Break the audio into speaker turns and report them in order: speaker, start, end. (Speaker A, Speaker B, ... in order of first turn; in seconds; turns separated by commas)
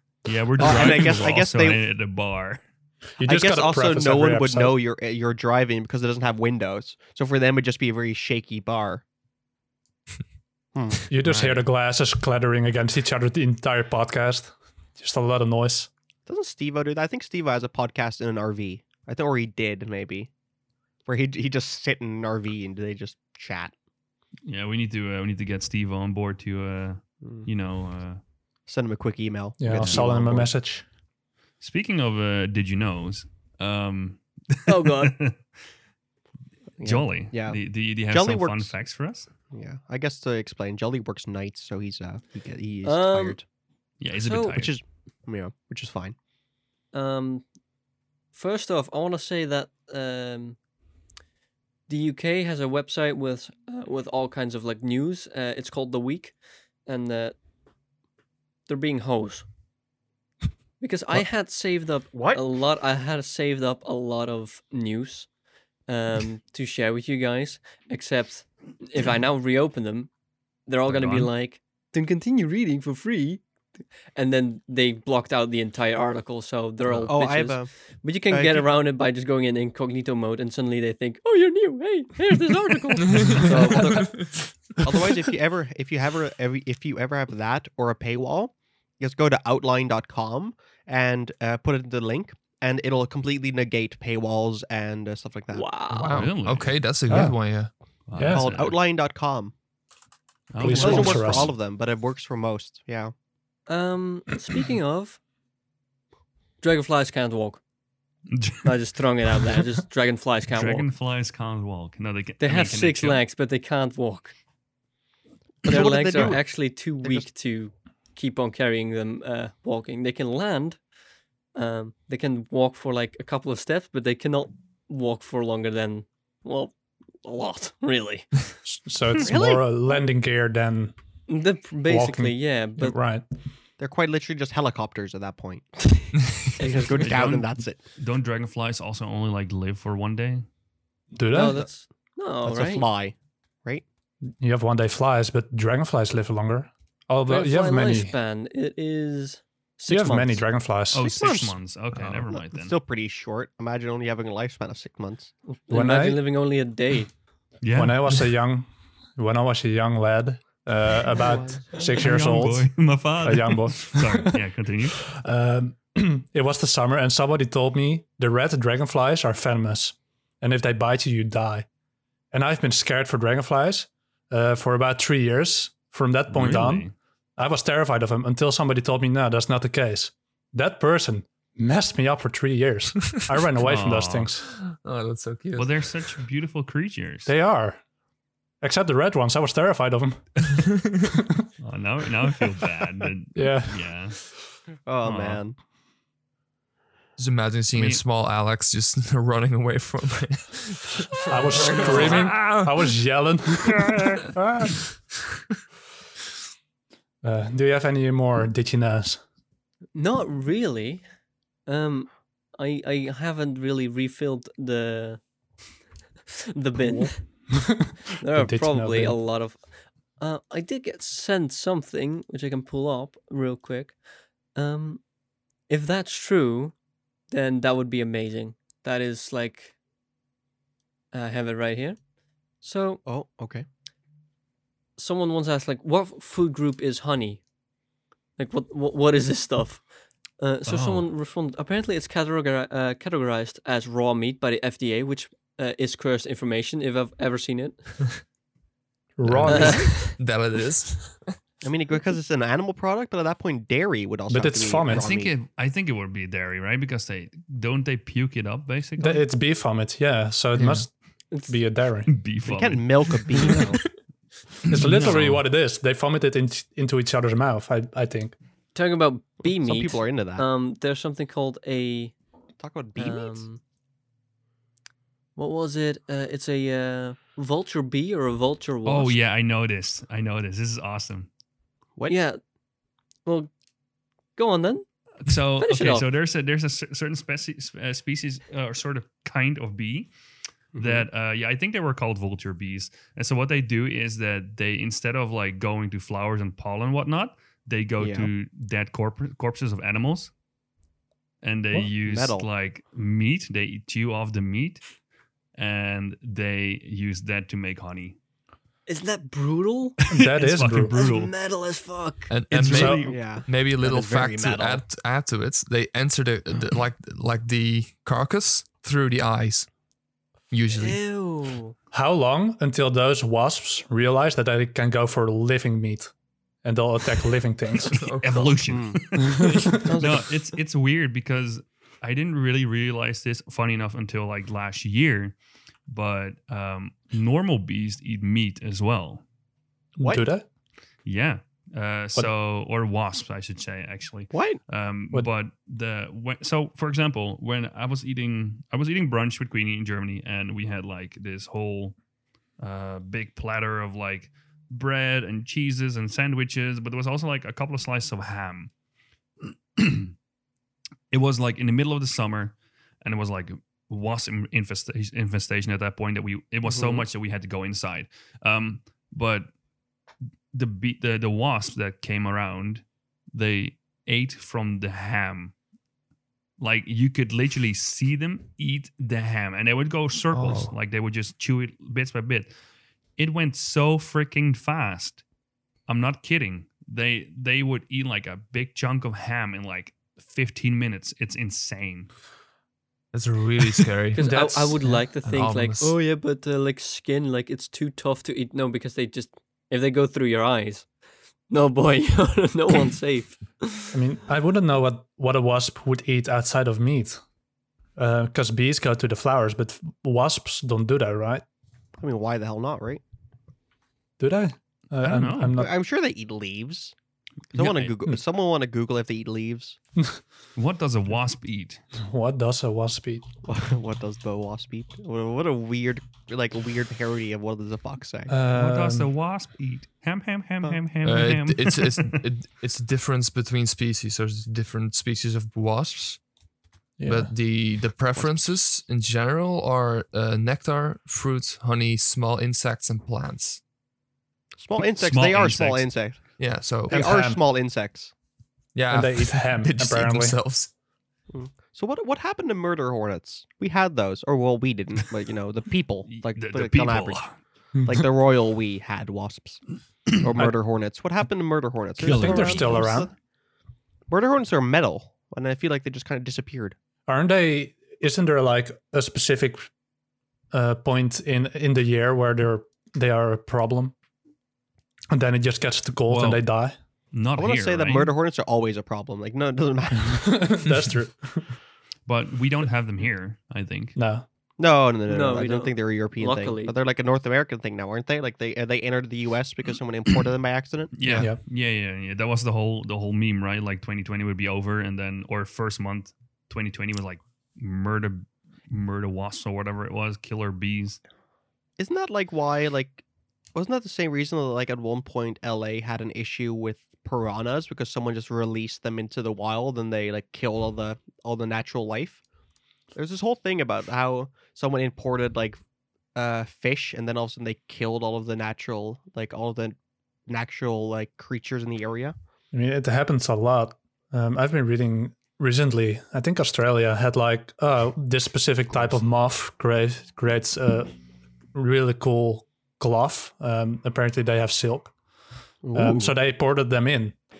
Speaker A: 0.2-2.6, Speaker B: 0.6-1.4, Speaker C: 0.6-1.8, Speaker D: 3.2-4.8, Speaker C: 3.2-9.0, Speaker C: 10.7-11.0, Speaker D: 11.1-15.9, Speaker A: 11.2-11.6, Speaker C: 16.3-20.3, Speaker C: 21.1-23.7, Speaker A: 24.4-28.2, Speaker C: 28.7-30.5, Speaker D: 29.6-30.8, Speaker A: 31.6-35.4, Speaker E: 34.6-35.1, Speaker C: 36.8-37.6, Speaker A: 36.8-39.3, Speaker C: 38.1-38.7, Speaker C: 39.5-43.4, Speaker E: 42.8-43.4, Speaker A: 44.0-44.7, Speaker E: 44.2-44.6, Speaker C: 44.5-46.1, Speaker E: 46.9-47.4, Speaker E: 48.3-50.6, Speaker E: 51.9-56.3, Speaker E: 56.9-57.4, Speaker E: 58.7-59.5, Speaker E: 60.8-65.3, Speaker C: 62.1-62.4, Speaker E: 65.9-70.1, Speaker E: 70.7-73.4, Speaker A: 70.8-71.3, Speaker E: 74.1-84.0, Speaker C: 77.0-77.7, Speaker C: 78.3-78.7, Speaker B: 83.0-83.4, Speaker C: 83.4-84.1, Speaker D: 83.8-84.1, Speaker B: 84.0-84.3, Speaker C: 84.8-95.7, Speaker E: 95.5-96.3, Speaker B: 95.9-97.7, Speaker A: 96.1-96.8, Speaker D: 97.1-97.4, Speaker A: 98.1-98.8, Speaker D: 98.2-98.5, Speaker C: 98.3-99.5, Speaker A: 100.5-101.5, Speaker D: 100.6-101.5, Speaker C: 100.6-103.1, Speaker E: 100.8-101.2, Speaker E: 103.7-105.2, Speaker E: 106.6-107.6, Speaker A: 108.3-108.8, Speaker E: 108.6-110.9, Speaker A: 110.5-113.2, Speaker E: 112.4-114.3, Speaker C: 115.6-116.5, Speaker E: 115.6-120.8, Speaker C: 117.0-117.3, Speaker E: 121.5-128.3, Speaker D: 128.7-130.9, Speaker C: 129.2-130.0, Speaker E: 131.3-132.9, Speaker D: 131.8-133.2, Speaker C: 133.8-135.7, Speaker B: 136.2-136.6, Speaker E: 136.6-137.1, Speaker C: 136.7-137.8, Speaker A: 137.0-140.4, Speaker D: 141.1-141.6, Speaker E: 141.3-142.9, Speaker C: 142.4-143.8, Speaker D: 144.4-148.1, Speaker E: 147.3-150.4, Speaker D: 149.9-151.0, Speaker A: 150.9-152.7, Speaker C: 150.9-151.6, Speaker B: 151.9-152.3, Speaker C: 152.3-155.3, Speaker E: 155.5-157.1, Speaker D: 155.7-156.2, Speaker A: 157.6-158.2, Speaker D: 157.7-164.4, Speaker C: 161.1-161.8, Speaker A: 161.8-165.1, Speaker D: 165.0-171.7, Speaker D: 172.3-184.5, Speaker A: 176.3-176.9, Speaker A: 183.6-184.3, Speaker B: 184.5-185.8, Speaker A: 185.5-187.3, Speaker D: 187.2-187.8, Speaker D: 188.6-190.4, Speaker D: 191.1-191.4, Speaker A: 191.6-194.2, Speaker D: 193.3-193.9, Speaker C: 194.8-195.6, Speaker A: 195.0-195.4, Speaker B: 197.2-202.8, Speaker A: 197.7-198.0, Speaker D: 201.3-204.8, Speaker E: 201.5-202.3, Speaker D: 207.2-209.2, Speaker E: 209.9-211.0, Speaker E: 211.7-215.2, Speaker E: 216.5-217.5, Speaker D: 216.8-219.2, Speaker E: 218.2-219.7, Speaker E: 220.2-223.9, Speaker E: 224.5-225.0, Speaker E: 225.7-226.7, Speaker E: 227.3-229.7, Speaker E: 231.1-232.0, Speaker E: 232.6-233.0, Speaker C: 233.0-233.7, Speaker E: 235.0-237.4, Speaker E: 238.4-239.8, Speaker E: 240.4-247.9, Speaker A: 240.7-241.1, Speaker D: 249.2-250.1, Speaker B: 249.2-251.3, Speaker E: 249.5-250.2, Speaker C: 251.6-255.3, Speaker D: 254.3-255.1, Speaker A: 254.9-259.2, Speaker D: 259.0-260.9, Speaker B: 260.5-260.9, Speaker E: 261.3-261.6, Speaker D: 261.4-262.1, Speaker A: 262.1-263.1, Speaker C: 262.4-263.8, Speaker A: 264.7-265.4, Speaker D: 264.7-268.3, Speaker E: 268.7-272.1, Speaker C: 269.4-270.4, Speaker C: 272.6-273.4, Speaker E: 273.0-273.6, Speaker E: 275.4-279.2, Speaker A: 278.8-281.3, Speaker E: 282.1-282.4, Speaker E: 283.2-283.5, Speaker E: 284.4-284.9, Speaker A: 285.2-290.1, Speaker E: 285.6-286.1, Speaker C: 290.7-291.1, Speaker A: 290.8-300.3, Speaker C: 298.0-298.3, Speaker A: 301.4-304.8, Speaker C: 302.0-302.5, Speaker A: 305.6-308.2, Speaker E: 308.9-310.0, Speaker A: 310.1-311.3, Speaker D: 310.1-311.0, Speaker E: 310.9-312.3, Speaker B: 312.3-319.7, Speaker A: 312.5-313.2, Speaker D: 312.7-313.1, Speaker C: 313.1-314.8, Speaker B: 320.5-321.0, Speaker E: 320.7-321.7, Speaker D: 321.9-326.1, Speaker D: 326.6-328.0, Speaker B: 327.9-328.7, Speaker A: 327.9-335.4, Speaker C: 328.7-330.3, Speaker A: 335.9-339.2, Speaker D: 340.0-340.4, Speaker C: 340.0-340.2, Speaker A: 341.1-351.9, Speaker C: 344.3-344.6, Speaker A: 352.6-358.7, Speaker A: 359.5-360.1, Speaker A: 361.1-369.5, Speaker C: 366.6-367.1, Speaker A: 370.5-375.5, Speaker A: 376.6-382.5, Speaker B: 380.3-380.7, Speaker A: 383.2-385.2, Speaker A: 385.9-392.1, Speaker B: 393.1-394.5, Speaker E: 394.1-400.9, Speaker D: 394.2-395.1, Speaker B: 395.2-396.0, Speaker E: 401.5-403.9, Speaker D: 403.9-407.2, Speaker D: 408.0-411.4, Speaker C: 412.0-413.0, Speaker D: 414.2-415.7, Speaker A: 415.0-415.6, Speaker C: 415.5-416.9, Speaker A: 417.5-417.9, Speaker C: 417.5-419.8, Speaker A: 420.6-421.8, Speaker D: 422.0-423.2, Speaker C: 423.4-428.3, Speaker D: 428.3-429.1, Speaker A: 428.5-432.2, Speaker B: 431.0-436.2, Speaker D: 437.0-437.3, Speaker B: 437.1-443.6, Speaker C: 444.6-446.2, Speaker A: 444.8-445.9, Speaker B: 446.4-447.0, Speaker C: 446.7-448.1, Speaker D: 446.9-447.4, Speaker B: 448.7-450.7, Speaker D: 448.9-450.4, Speaker C: 451.3-457.2, Speaker A: 456.1-457.4, Speaker D: 457.8-458.0, Speaker C: 457.8-459.6, Speaker C: 460.1-463.1, Speaker A: 462.0-463.0, Speaker D: 462.0-463.1, Speaker C: 464.1-466.8, Speaker D: 467.1-469.7, Speaker D: 470.5-473.9, Speaker D: 475.1-476.8, Speaker A: 476.1-476.4, Speaker A: 477.1-478.1, Speaker C: 477.4-480.7, Speaker D: 480.0-481.5, Speaker A: 482.1-484.0, Speaker D: 483.9-484.2, Speaker C: 484.6-491.2, Speaker E: 485.1-486.7, Speaker A: 490.9-501.0, Speaker D: 491.1-491.4, Speaker C: 501.8-503.0, Speaker C: 503.5-512.2, Speaker C: 512.9-515.6, Speaker C: 516.1-522.1, Speaker D: 522.5-530.9, Speaker D: 531.5-534.9, Speaker C: 535.6-536.1, Speaker D: 535.7-537.2